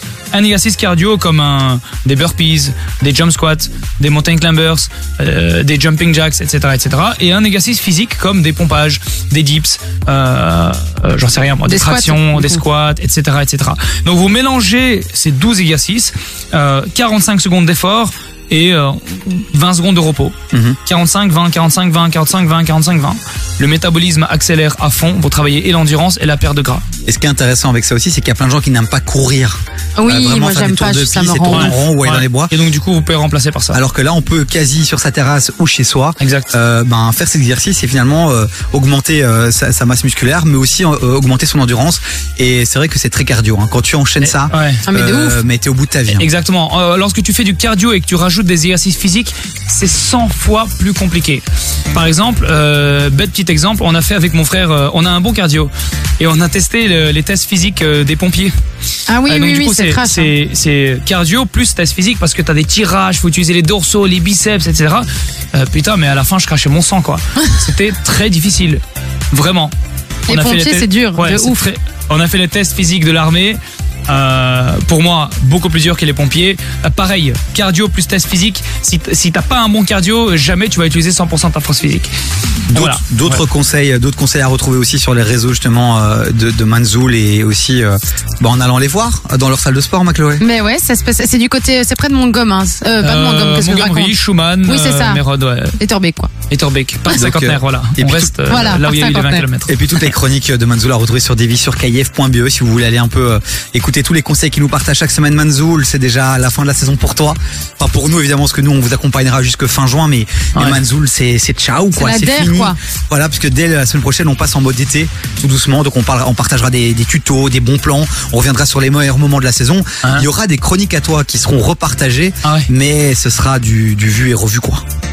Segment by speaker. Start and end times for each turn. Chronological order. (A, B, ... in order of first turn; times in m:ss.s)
0:00.3-0:20.3 A
0:11.6-0:12.6 B
0:20.5-0:20.8 C
0:20.8-0:26.8 A
0:27.0-0:32.5 C
0:30.0-0:31.8 B
0:31.5-0:33.8 A
0:33.7-0:46.2 C
0:36.2-0:36.5 A
0:44.2-0:44.8 A
0:44.8-0:45.4 B
0:46.1-0:58.5 A
0:59.1-1:00.3 B
0:59.3-1:09.7 A
1:10.3-1:11.6 B
1:10.3-1:22.1 A
1:22.7-1:30.4 C
1:22.7-1:23.4 A
1:30.4-1:35.2 B
1:33.0-1:35.8 A
1:35.8-1:36.3 B
1:36.5-1:40.1 A
1:37.1-1:38.3 C
1:38.5-1:39.5 B
1:39.7-2:04.8 C
1:51.9-1:52.8 B